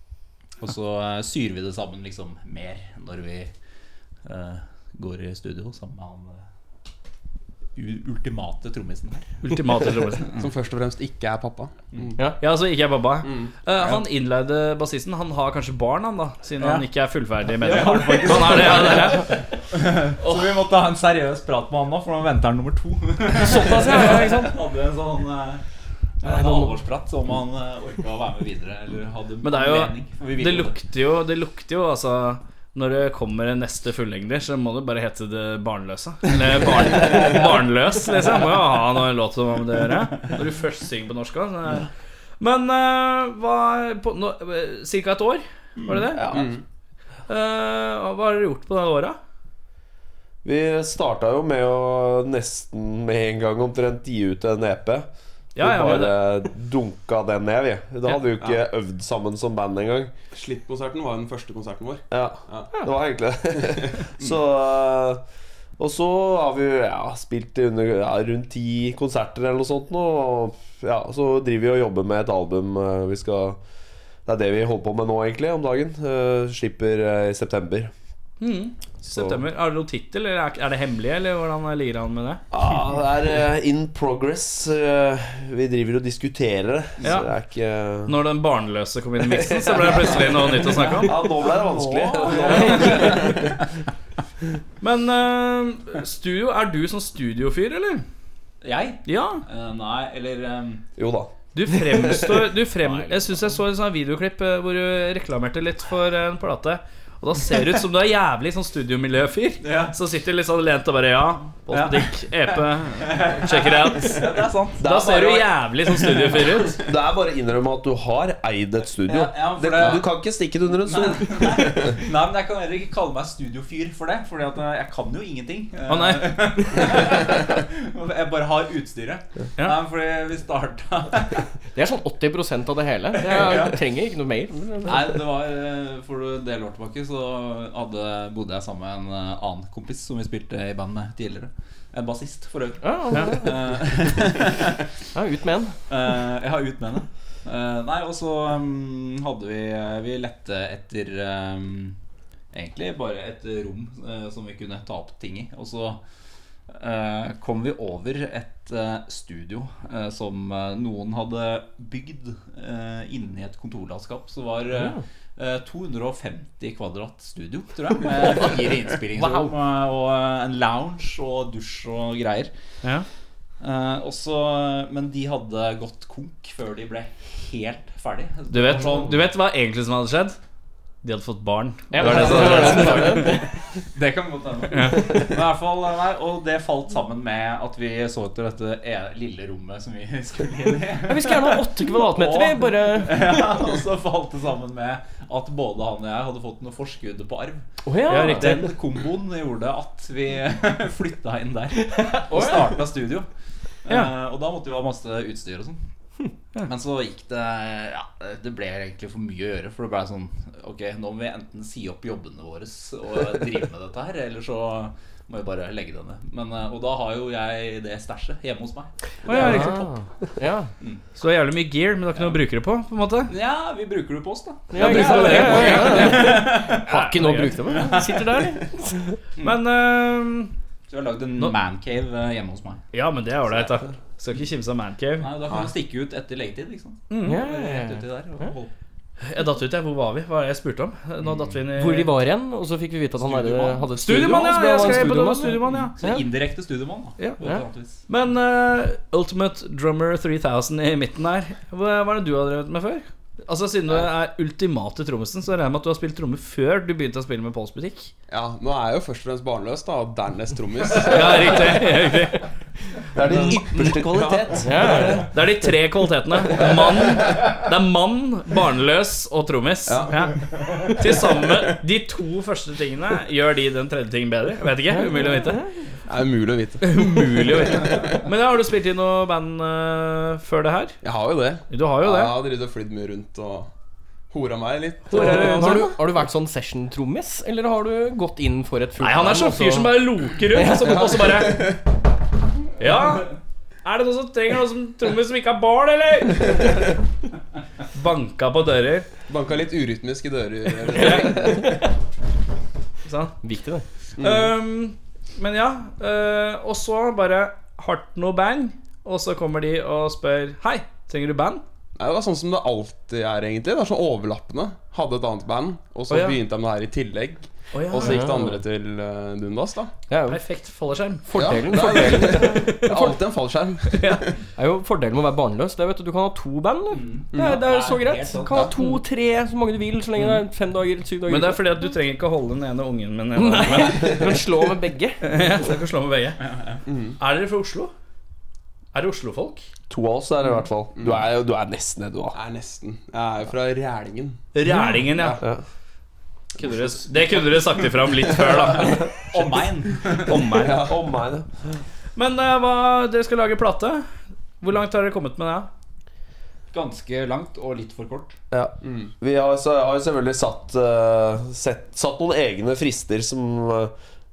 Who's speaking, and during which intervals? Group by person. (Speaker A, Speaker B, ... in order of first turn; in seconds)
Speaker A: 0.6-3.5, 4.2-6.4, 7.8-9.3, 17.6-25.6, 26.2-30.8, 90.9-93.4, 98.6-100.8, 109.6-110.0, 111.7-112.1, 113.0-114.9, 119.0-120.1, 120.8-131.5, 133.2-133.8, 134.8-144.8, 145.9-151.9, 152.5-156.0, 156.7-172.5, 173.6-179.2, 182.0-183.4, 183.9-197.6, 198.3-203.3, 203.8-205.8, 206.6-219.8, 223.3-226.9, 227.7-228.4, 230.9-232.8, 235.2-238.7, 243.2-243.9, 245.7-248.0, 326.9-328.7, 336.4-336.8, 349.3-350.4, 356.7-358.4
Speaker B: 9.4-10.3, 12.4-19.4, 29.4-41.9, 42.4-46.4, 47.3-49.2, 55.5-56.2, 78.4-82.4, 87.0-87.3, 88.0-93.3, 94.8-98.0, 99.0-99.4, 101.5-116.8, 125.9-126.5, 143.1-143.4, 178.5-180.4, 181.0-183.4, 184.7-185.1, 198.1-198.7, 219.2-219.8, 221.2-223.3, 224.8-227.6, 229.4-230.5, 232.9-235.3, 237.1-237.4, 239.2-242.1, 244.0-245.9, 248.1-258.1, 260.9-262.4, 263.3-264.0, 265.0-275.6, 276.8-281.0, 281.7-282.3, 285.1-285.9, 289.0-291.7, 292.8-293.3, 293.8-296.9, 297.9-299.1, 300.9-301.6, 303.0-303.3, 304.2-311.6, 316.1-316.4, 317.7-318.3, 320.3-322.9, 323.9-324.2, 331.3-334.3, 335.2-336.4, 337.2-337.9, 338.9-339.6, 344.5-345.4, 346.6-349.1, 350.1-350.8, 352.1-354.1, 354.6-355.7
Speaker C: 10.3-12.1, 13.2-13.5, 46.3-46.6, 60.3-62.7, 63.8-64.3, 258.3-261.9, 269.9-270.3, 276.1-278.0, 281.0-283.7, 284.3-285.9, 291.3-291.8, 299.3-301.8, 304.2-304.5, 312.0-319.9, 321.3-324.4, 327.3-327.6, 336.9-337.2, 340.9-341.3, 342.3-344.4, 345.0-345.4, 346.6-347.4, 350.5-351.0, 358.8-359.1
Speaker D: 23.3-24.6, 26.2-26.8, 131.7-135.1, 142.8-143.6, 145.1-145.8, 181.9-183.4, 191.1-193.6, 197.8-198.6, 202.1-202.7, 219.3-220.7, 224.7-229.0, 237.2-238.5, 241.8-246.2, 264.6-265.3, 274.9-275.6, 285.1-291.0, 303.4-303.8, 318.0-318.4, 320.1-320.4, 321.2-323.1, 324.6-331.7, 333.3-335.2
Speaker E: 46.1-46.5, 50.4-60.1, 62.1-65.2, 65.8-73.6, 74.2-77.9, 79.0-79.4, 82.5-88.2, 89.2-93.4, 101.0-101.3, 114.8-115.5, 116.5-122.0, 263.1-265.1, 339.9-342.4, 350.7-351.5, 358.5-363.9